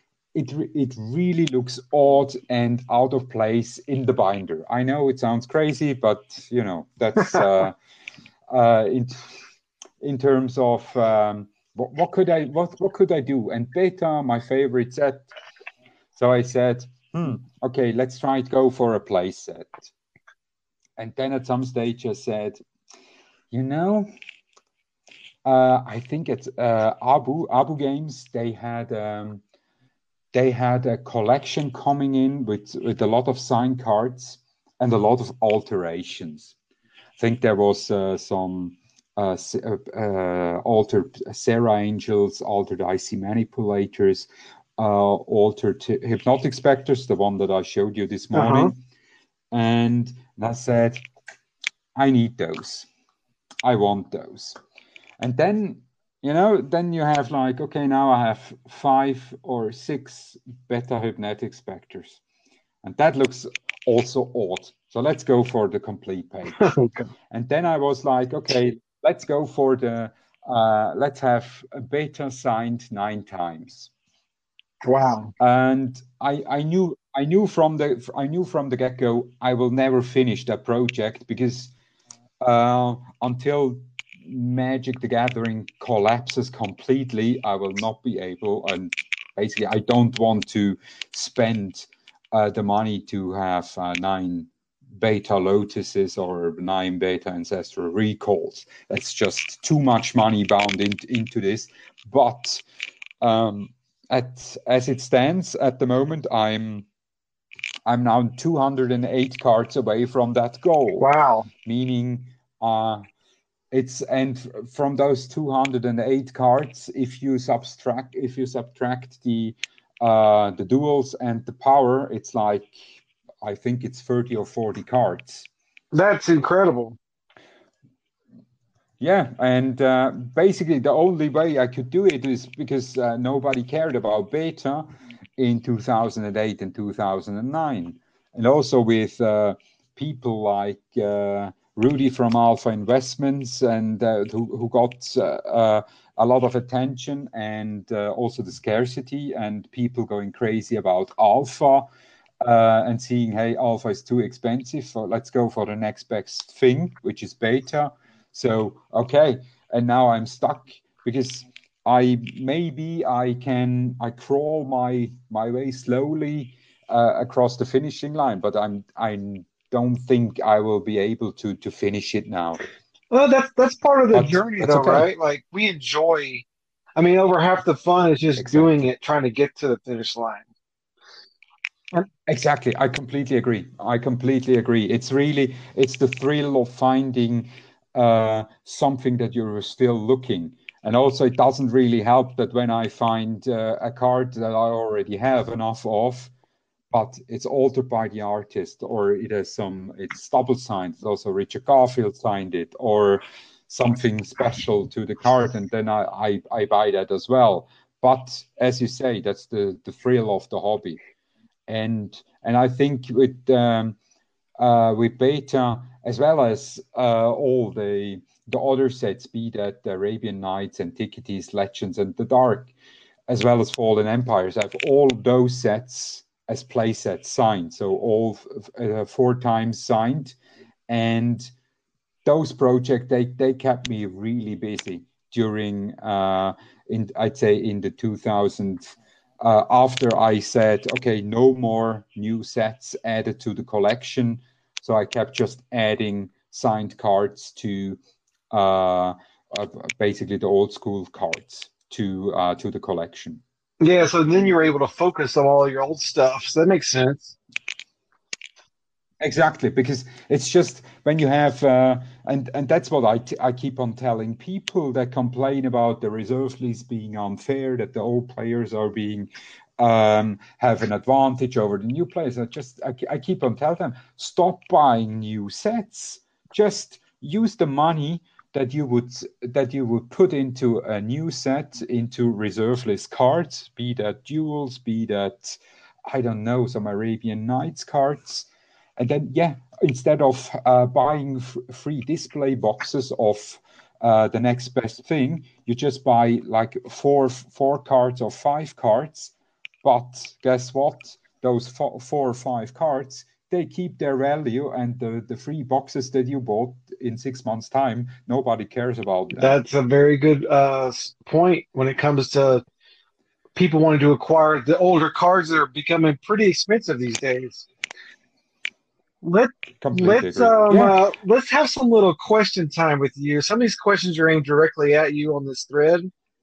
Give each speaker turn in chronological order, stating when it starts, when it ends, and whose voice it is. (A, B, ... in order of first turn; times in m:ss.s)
0:00.3-0:07.8 A
0:08.5-0:09.2 A
0:10.0-0:15.3 A
0:16.2-0:19.9 A
0:21.0-0:22.6 A
0:23.5-0:24.1 A
0:25.4-0:29.4 A
0:30.3-0:36.6 A
0:37.2-0:48.8 A
0:48.3-0:48.7 B
0:49.5-0:51.0 A
0:52.0-0:52.9 A
0:53.6-0:54.6 A
0:55.2-1:02.2 A
1:02.8-1:06.7 A
1:06.6-1:07.1 B
1:07.3-1:13.9 A
1:14.8-1:15.3 B
1:15.4-1:21.7 A
1:22.4-1:42.6 A
1:43.2-1:46.9 A
1:47.9-1:51.1 A
1:51.0-1:51.5 B
1:51.6-1:53.0 A
1:53.7-2:05.5 A
2:05.9-2:07.0 B
2:09.0-2:31.9 A
2:32.4-2:52.6 A
2:53.1-2:56.5 B
2:54.1-2:55.1 A
2:57.0-3:00.5 B
2:58.4-2:58.8 A
3:02.3-3:16.3 A
3:16.9-3:31.0 A
3:31.7-3:34.0 A
3:34.6-3:42.8 A
3:43.3-3:50.4 A
3:50.9-3:51.5 A
3:52.2-4:08.0 A
4:08.5-4:13.4 A
4:13.8-4:17.4 B
4:19.2-4:48.5 A
4:49.0-5:09.6 A
5:09.4-5:12.6 B
5:13.6-5:17.7 B
5:19.2-5:26.1 B
5:19.8-5:21.0 A